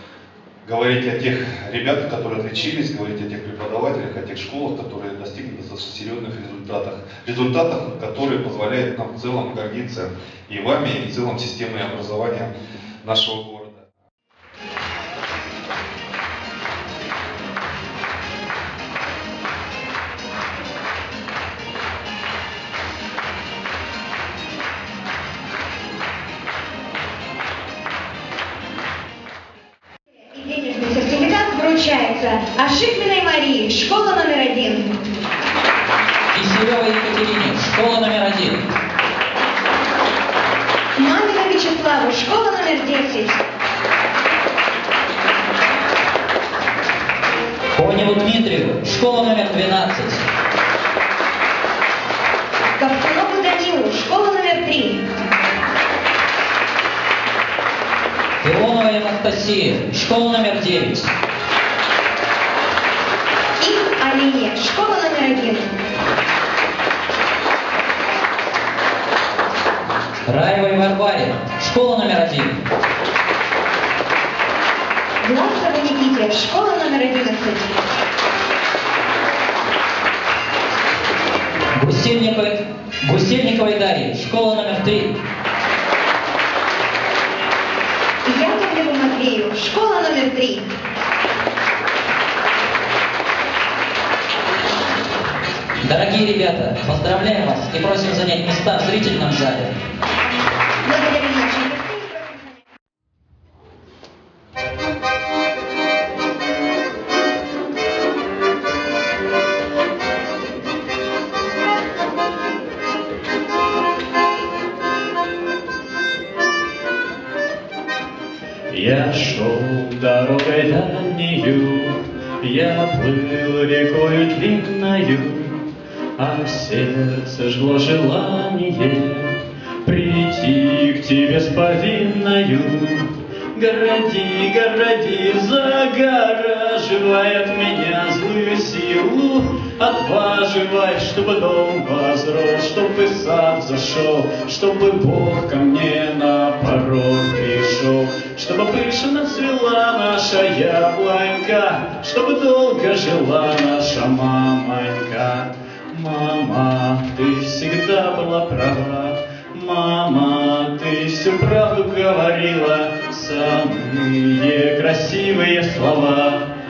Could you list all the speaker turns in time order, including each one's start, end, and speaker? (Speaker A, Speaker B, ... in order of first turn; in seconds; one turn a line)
Speaker A: 0.6-13.9
Speaker B: 30.2-34.9
Speaker C: 36.3-38.7
Speaker B: 41.0-43.4
Speaker C: 47.8-50.2
Speaker B: 52.8-55.0
Speaker C: 58.4-61.1
Speaker B: 63.6-65.7
Speaker C: 70.3-72.6
Speaker B: 75.2-77.8
Speaker C: 81.8-85.2
Speaker B: 88.2-90.7
Speaker C: 95.8-99.7
Speaker B: 100.8-102.5
Speaker D: 118.8-121.0
Speaker D: 122.5-123.0
Speaker D: 123.5-125.2
Speaker D: 126.2-128.3
Speaker D: 131.6-132.6
Speaker D: 133.8-139.3
Speaker D: 139.8-155.0
Speaker D: 156.0-159.0
Speaker D: 159.6-160.6
Speaker D: 161.1-164.0
Speaker D: 164.7-166.2